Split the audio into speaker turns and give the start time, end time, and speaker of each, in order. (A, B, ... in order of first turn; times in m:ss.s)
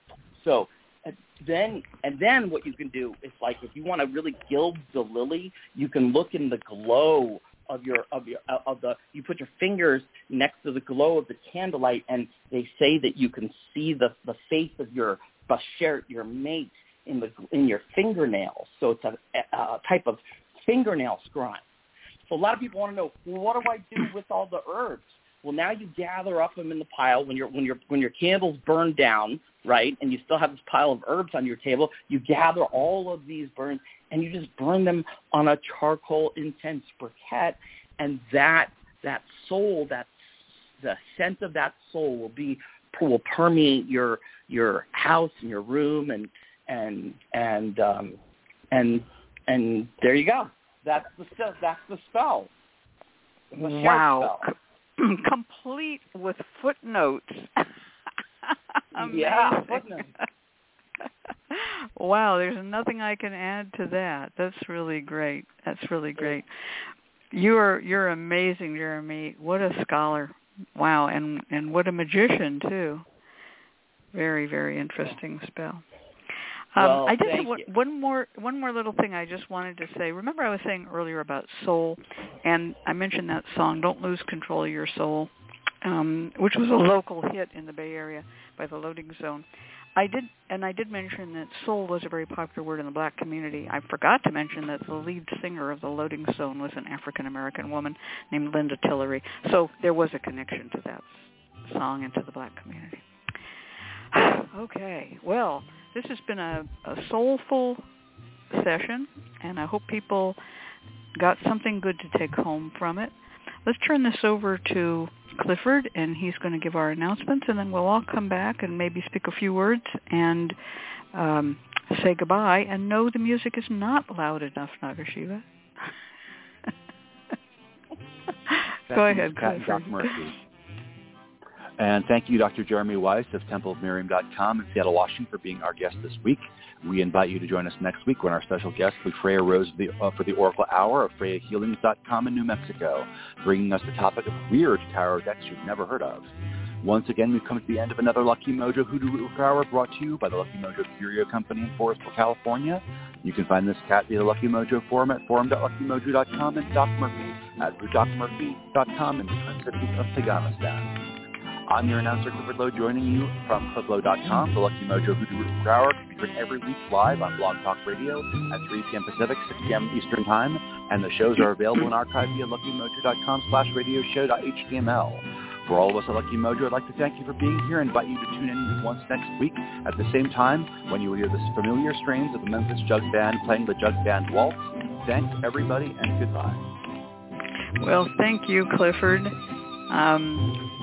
0:00.4-0:21.6 A
0:22.3-0:40.2 A
0:40.8-0:48.2 A
0:48.7-0:52.5 A
0:53.5-0:54.4 A
0:53.6-0:57.7 B
0:58.5-1:00.2 B
0:59.0-1:00.1 A
1:01.5-1:06.5 B
1:07.3-1:13.0 B
1:14.1-1:15.8 B
1:16.7-1:25.3 B
1:16.8-1:17.7 A
1:25.8-1:43.0 B
1:44.1-1:47.8 B
1:48.5-1:50.4 B
1:51.2-1:53.1 B
1:53.6-2:00.6 B
2:01.1-2:05.9 B
2:08.5-2:10.2 B
2:08.9-2:10.4 C
2:11.8-2:26.3 C
2:26.8-2:40.9 C
2:41.7-3:06.6 C
3:07.8-3:09.4 B
3:09.9-3:10.6 B